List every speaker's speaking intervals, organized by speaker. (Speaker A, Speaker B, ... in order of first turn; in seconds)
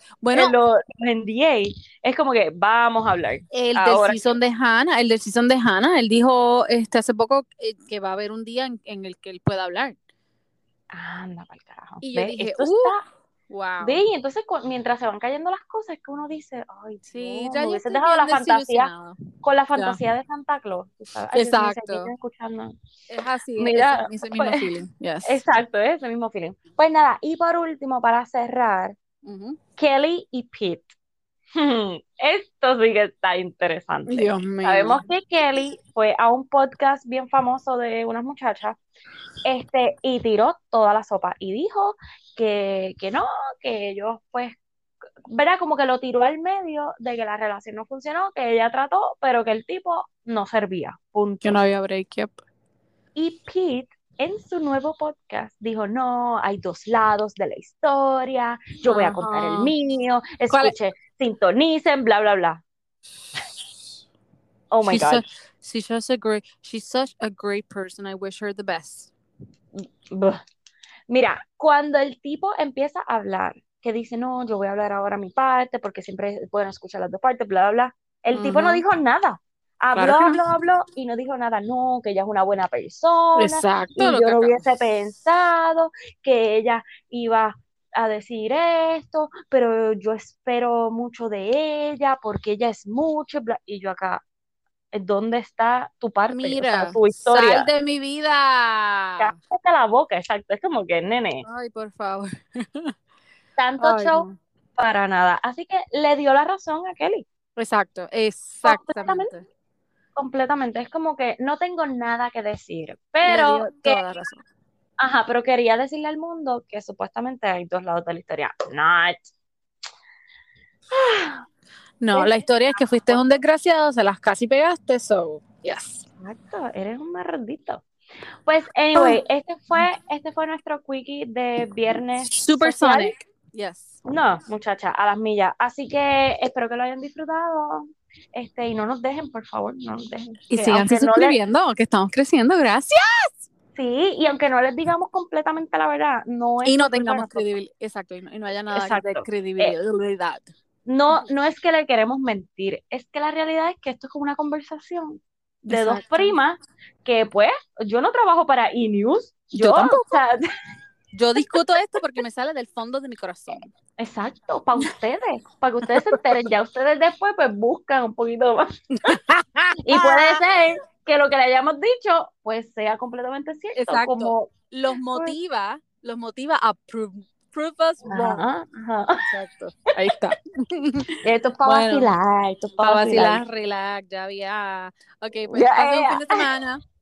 Speaker A: 0.2-0.6, 3.5-10.0, 12.0-13.0, 13.5-14.0, 17.1-19.2, 21.3-22.1, 23.1-25.4, 29.2-29.6, 34.1-35.0, 51.4-52.4, 58.9-59.7, 60.5-60.8, 63.2-63.9, 64.8-69.1, 78.3-78.8, 80.0-80.4, 83.4-84.6, 96.3-99.4, 101.4-102.9, 103.8-104.4, 107.6-109.5, 113.2-114.5, 122.0-126.0, 128.9-129.2, 132.2-134.0, 140.5-143.4, 146.7-150.5, 155.7-156.4, 159.5-160.2, 161.1-163.7, 165.8-166.2, 169.1-170.4, 173.8-178.4, 179.2-182.1, 182.8-186.8
Speaker B: 0.3-4.3, 10.9-13.0, 13.8-18.9, 19.4-22.8, 23.6-24.7, 25.2-29.0, 29.8-30.9, 31.6-38.8, 39.4-44.6, 45.3-51.6, 53.2-62.6, 64.7-65.2, 69.8-70.4, 71.1-94.2, 94.9-97.7, 99.2-101.5, 103.6-107.3, 108.7-109.3, 110.2-114.0, 115.0-119.3, 120.9-121.5, 122.1-123.4, 126.2-127.8, 128.5-133.1, 134.1-141.4, 143.8-147.5, 148.7-149.8, 150.9-160.4, 164.0-168.7, 169.8-174.5, 178.1-179.2, 181.2-183.4, 185.5-186.4